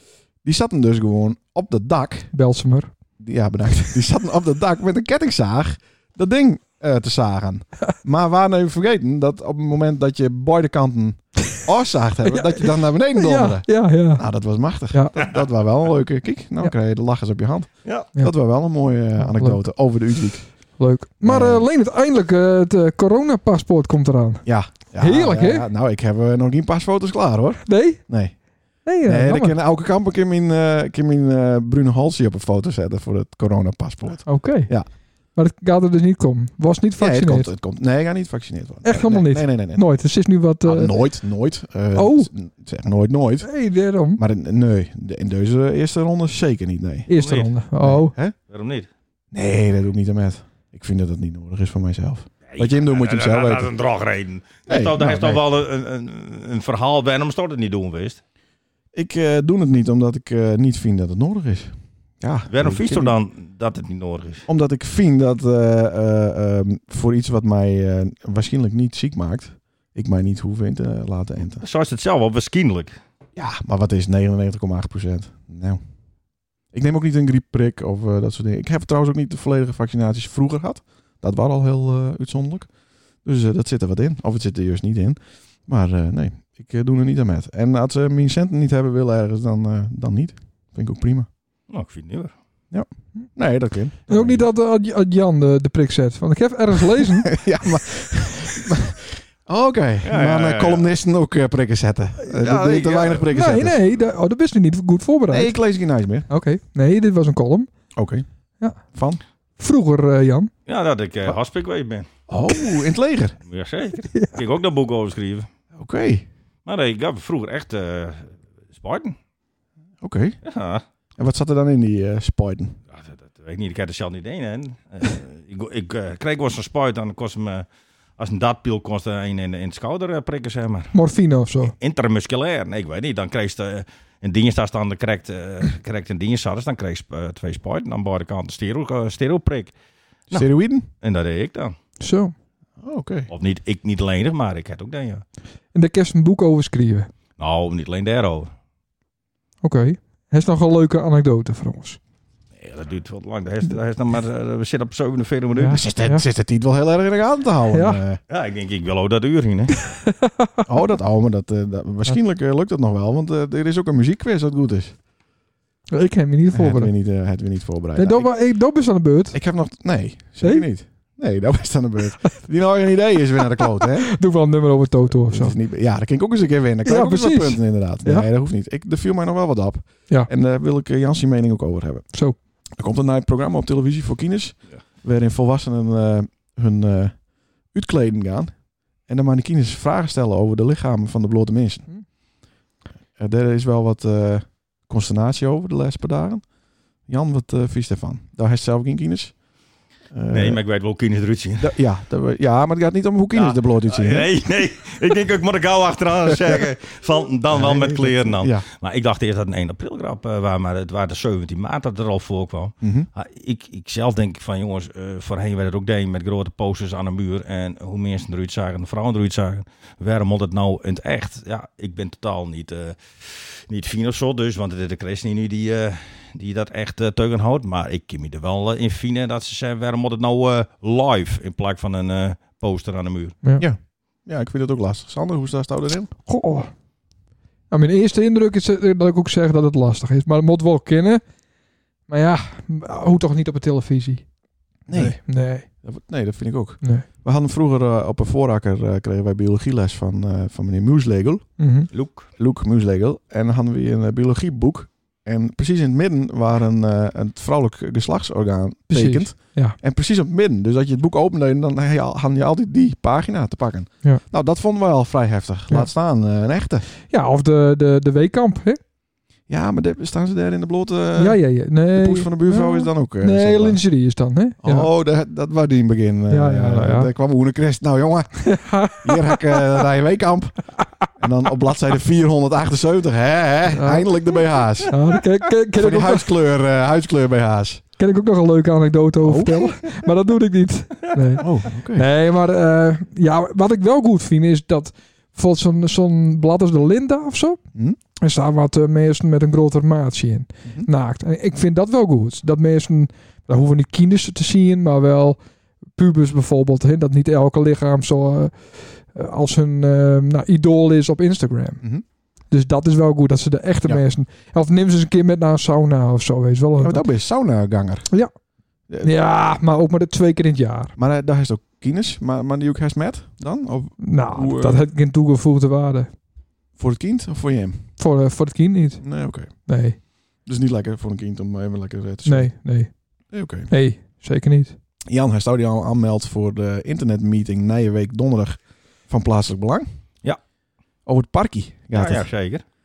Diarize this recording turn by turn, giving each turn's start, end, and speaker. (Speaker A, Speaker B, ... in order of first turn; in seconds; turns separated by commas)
Speaker A: 0.4-2.3, Speaker B: 2.3-2.9, Speaker A: 3.2-20.5, Speaker B: 12.3-14.2, Speaker B: 14.9-15.2, Speaker B: 19.2-19.6, Speaker B: 20.8-24.4, Speaker A: 21.2-21.6, Speaker A: 24.4-34.9, Speaker B: 25.0-25.6, Speaker B: 27.6-28.0, Speaker B: 28.8-29.5, Speaker B: 34.2-34.7, Speaker B: 35.3-37.5, Speaker A: 37.0-39.8, Speaker B: 38.8-41.0, Speaker A: 40.6-43.5, Speaker B: 41.9-42.3, Speaker B: 43.4-44.2, Speaker A: 44.1-47.1, Speaker B: 47.1-48.1, Speaker C: 47.2-47.5, Speaker A: 47.8-48.3, Speaker C: 48.5-48.9, Speaker A: 49.3-53.7, Speaker C: 52.5-58.2, Speaker A: 54.7-55.4, Speaker A: 58.9-63.1, Speaker C: 62.5-64.5, Speaker A: 64.5-71.6, Speaker C: 71.6-73.0, Speaker A: 73.3-75.8, Speaker A: 76.7-82.7, Speaker A: 83.2-91.3, Speaker C: 91.7-92.3, Speaker A: 92.7-94.4, Speaker B: 94.1-97.4, Speaker A: 97.2-103.8, Speaker C: 100.0-100.9, Speaker C: 102.3-103.3, Speaker B: 103.3-105.5, Speaker A: 105.3-106.3, Speaker B: 106.3-107.7, Speaker A: 108.0-108.2, Speaker A: 108.9-109.2, Speaker B: 109.6-110.5, Speaker C: 110.7-112.1, Speaker A: 112.3-113.3, Speaker C: 113.5-115.5, Speaker A: 115.8-116.2, Speaker C: 116.7-119.2, Speaker A: 120.0-120.4, Speaker C: 120.4-120.8, Speaker A: 121.2-122.8, Speaker C: 122.9-127.7, Speaker C: 128.2-130.9, Speaker B: 130.9-131.7, Speaker C: 131.8-139.7, Speaker A: 140.3-140.9, Speaker C: 141.0-141.7, Speaker B: 142.0-142.3, Speaker A: 142.8-143.3, Speaker C: 143.3-145.2, Speaker B: 145.7-147.1, Speaker C: 147.4-148.5, Speaker B: 149.6-152.0, Speaker C: 152.6-155.8, Speaker B: 155.6-156.2, Speaker A: 155.7-158.2, Speaker B: 157.7-158.0, Speaker C: 158.3-159.8, Speaker B: 159.9-160.5, Speaker A: 160.7-164.9, Speaker B: 165.9-166.9, Speaker A: 166.5-168.3, Speaker B: 167.9-169.3, Speaker A: 169.3-174.1, Speaker B: 174.1-175.5, Speaker A: 175.1-191.9, Speaker B: 176.9-178.3, Speaker A: 193.2-196.4, Speaker A: 197.1-199.3, Speaker A: 200.1-200.6, Speaker C: 200.3-201.7, Speaker A: 201.6-204.3, Speaker C: 203.3-233.4, Speaker A: 207.5-208.6, Speaker A: 212.8-213.1, Speaker A: 233.6-236.1, Speaker B: 236.2-236.7, Speaker B: 237.7-241.2, Speaker B: 242.1-244.3, Speaker A: 244.9-251.6, Speaker B: 244.9-245.7, Speaker B: 251.6-251.9, Speaker C: 251.9-252.3, Speaker A: 252.3-266.8, Speaker B: 258.9-259.8, Speaker B: 267.1-268.8, Speaker A: 269.5-273.8, Speaker B: 271.2-274.9, Speaker A: 274.6-280.6, Speaker B: 276.3-277.1, Speaker B: 278.5-279.6, Speaker A: 281.2-284.9, Speaker B: 283.7-284.1, Speaker B: 284.9-286.2, Speaker A: 285.7-287.8, Speaker B: 288.0-297.6, Speaker A: 289.2-289.9, Speaker A: 291.4-292.1, Speaker B: 298.2-305.4, Speaker B: 305.9-311.8, Speaker B: 312.5-317.0, Speaker A: 316.8-318.1, Speaker B: 319.0-320.9, Speaker A: 320.9-324.8, Speaker B: 324.0-326.1, Speaker A: 326.8-327.9, Speaker B: 328.0-330.0, Speaker A: 329.0-329.7, Speaker A: 330.4-332.6, Speaker B: 332.2-333.0, Speaker A: 333.3-333.7, Speaker B: 333.7-334.7, Speaker A: 335.1-339.9, Speaker A: 341.1-342.3, Speaker C: 341.9-342.6